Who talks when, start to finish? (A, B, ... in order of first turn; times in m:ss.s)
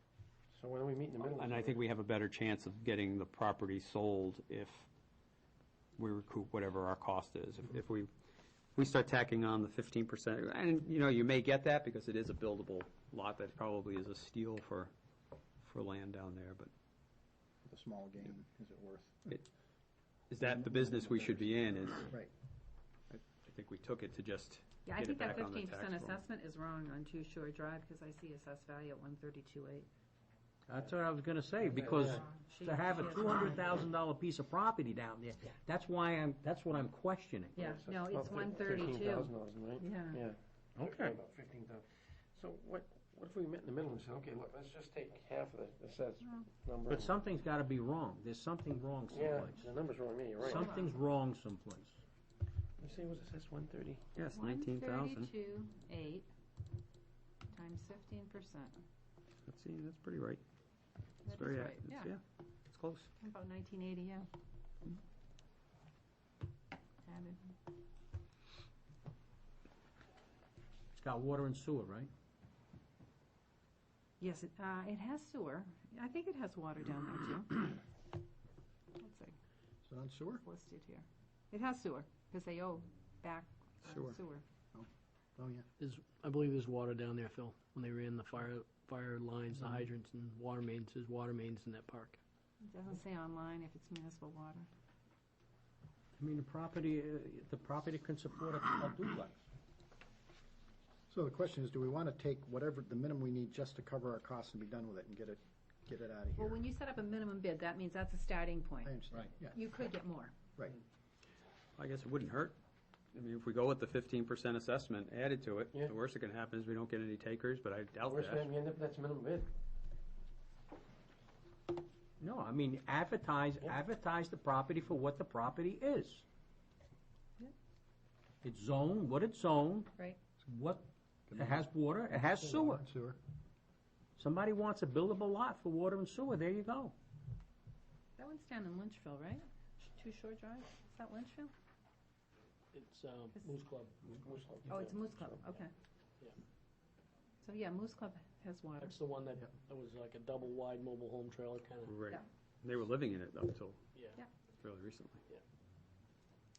0:00.5-0:01.8 A
0:01.3-0:04.9 B
0:06.0-0:08.1 B
0:08.8-0:14.9 B
0:15.6-0:16.7 B
0:17.6-0:19.3 C
0:20.3-0:22.1 B
0:20.4-0:22.3 C
0:23.1-0:26.2 B
0:24.8-0:29.9 D
0:30.7-0:37.7 E
0:31.6-0:32.2 A
0:32.1-0:33.8 D
0:37.6-0:40.2 D
0:37.6-0:47.1 A
0:40.8-0:41.1 E
0:46.9-0:49.8 E
0:49.1-0:50.7 A
0:50.4-0:52.0 E
0:50.5-0:50.9 D
0:52.8-0:54.1 A
0:54.1-0:55.3 B
0:54.3-0:56.3 D
0:57.5-0:58.7 D
0:59.5-1:00.4 B
1:01.2-1:02.1 D
1:01.3-1:03.1 B
1:03.2-1:04.3 D
1:07.0-1:07.4 D
1:10.9-1:12.1 E
1:14.2-1:17.8 D
1:19.0-1:19.4 D
1:19.8-1:20.4 C
1:20.4-1:24.4 D
1:23.8-1:24.2 C
1:24.7-1:25.6 C
1:25.8-1:32.2 F
1:32.6-1:34.7 D
1:36.2-1:39.4 E
1:41.1-1:46.6 C
1:46.4-1:50.3 D
1:48.8-1:49.6 C
1:51.8-1:52.6 B
1:53.1-1:58.5 B
1:58.0-1:59.5 A
2:02.2-2:06.2 E
2:08.4-2:09.9 E
2:10.4-2:12.8 E
2:11.3-2:11.6 C
2:12.2-2:13.2 C
2:14.2-2:16.9 E
2:18.2-2:21.5 D
2:22.7-2:24.2 F
2:24.2-2:25.3 A
2:24.7-2:25.7 D
2:27.4-2:29.0 D
2:28.8-2:32.0 F
2:31.8-2:33.8 B
2:34.6-2:35.2 B